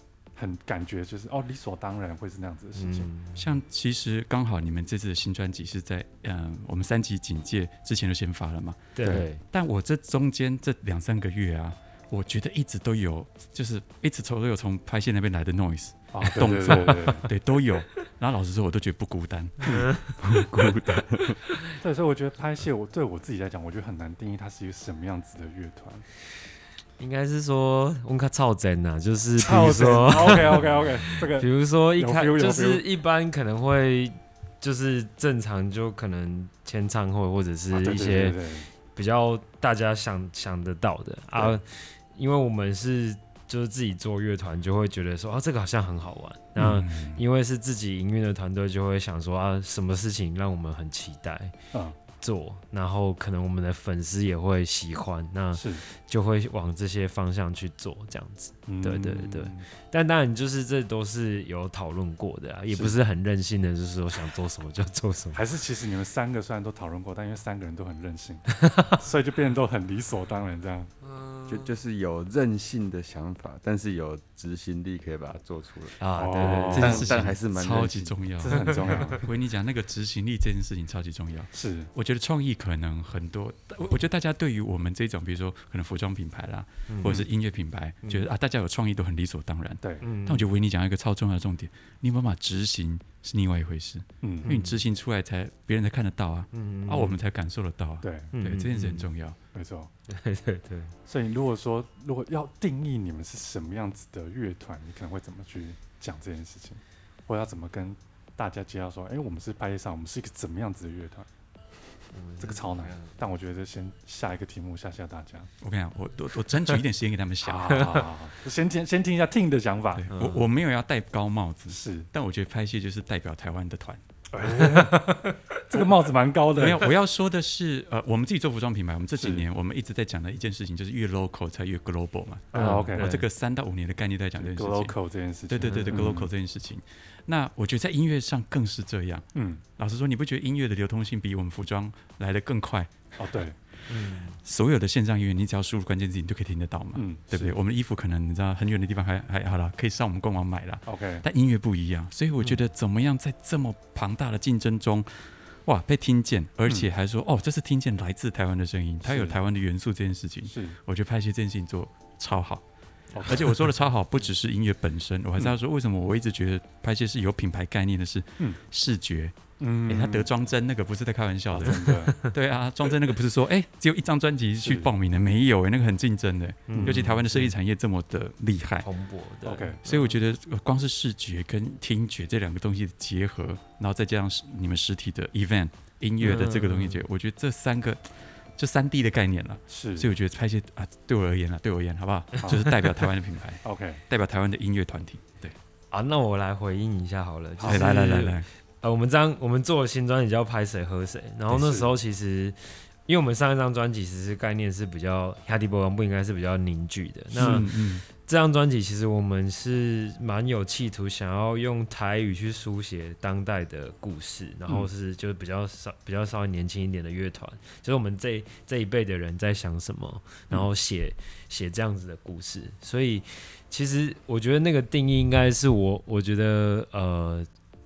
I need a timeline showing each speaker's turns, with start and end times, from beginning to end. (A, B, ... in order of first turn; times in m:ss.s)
0:00.4-0:03.1 A
0:02.8-0:03.5 B
0:03.4-0:20.0 C
0:09.0-0:09.4 B
0:09.0-0:09.3 A
0:16.1-0:17.3 A
0:19.7-0:20.1 B
0:20.2-0:21.4 D
0:21.8-0:26.0 A
0:27.0-0:30.7 B
0:29.4-0:32.8 A
0:31.3-0:38.4 B
0:37.7-0:38.7 A
0:38.9-0:51.6 B
0:41.3-0:41.6 A
0:46.6-0:47.2 C
0:52.2-1:05.4 B
0:55.5-0:55.8 A
0:58.7-0:59.7 A
1:02.7-1:03.0 A
1:05.3-1:10.9 A
1:08.7-1:08.9 B
1:11.1-1:11.6 B
1:11.5-1:18.2 D
1:16.0-1:17.3 B
1:16.2-1:17.0 A
1:16.7-1:39.4 C
1:18.4-1:19.2 A
1:18.5-1:19.2 B
1:21.5-1:21.9 A
1:26.9-1:27.2 B
1:29.8-1:30.1 A
1:30.0-1:30.5 B
1:34.2-1:34.5 A
1:34.4-1:34.8 B
1:36.5-1:37.2 B
1:38.0-1:38.3 A
1:38.3-1:39.1 B
1:39.5-1:39.9 A
1:40.1-1:40.9 B
1:41.1-1:51.3 A
1:52.1-1:53.2 B
1:52.4-1:55.5 A
1:55.6-1:58.1 C
1:57.4-2:00.1 A
2:00.0-2:04.0 C
2:00.1-2:00.5 B
2:01.7-2:02.1 A
2:04.3-2:05.2 A
2:04.4-2:05.8 B
2:05.7-2:06.9 A
2:06.6-2:15.0 C
2:09.2-2:09.4 A
2:12.5-2:13.2 A
2:12.5-2:13.2 B
2:14.4-2:16.3 A
2:15.5-2:23.1 C
2:15.6-2:16.0 B
2:19.4-2:19.6 A
2:23.2-2:23.6 A
2:23.9-2:24.4 B
2:23.9-2:42.6 C
2:27.0-2:27.6 A
2:30.9-2:31.2 A
2:39.0-2:39.4 A
2:40.4-2:40.8 A
2:43.1-2:43.7 A
2:43.2-2:58.9 C
2:49.6-2:50.3 A
2:51.5-2:52.2 A
2:51.6-2:52.3 B
2:54.6-2:54.9 A
2:56.7-2:57.6 B
2:56.7-2:57.0 A
2:58.8-3:00.2 B
2:59.4-2:59.8 A
2:59.8-3:15.6 C
3:06.2-3:07.0 B
3:09.7-3:10.1 A
3:12.4-3:12.8 A
3:13.6-3:14.0 A
3:15.9-3:47.5 B
3:17.6-3:17.9 A
3:17.6-3:18.5 C
3:21.5-3:22.0 A
3:27.3-3:27.6 A
3:27.4-3:28.0 C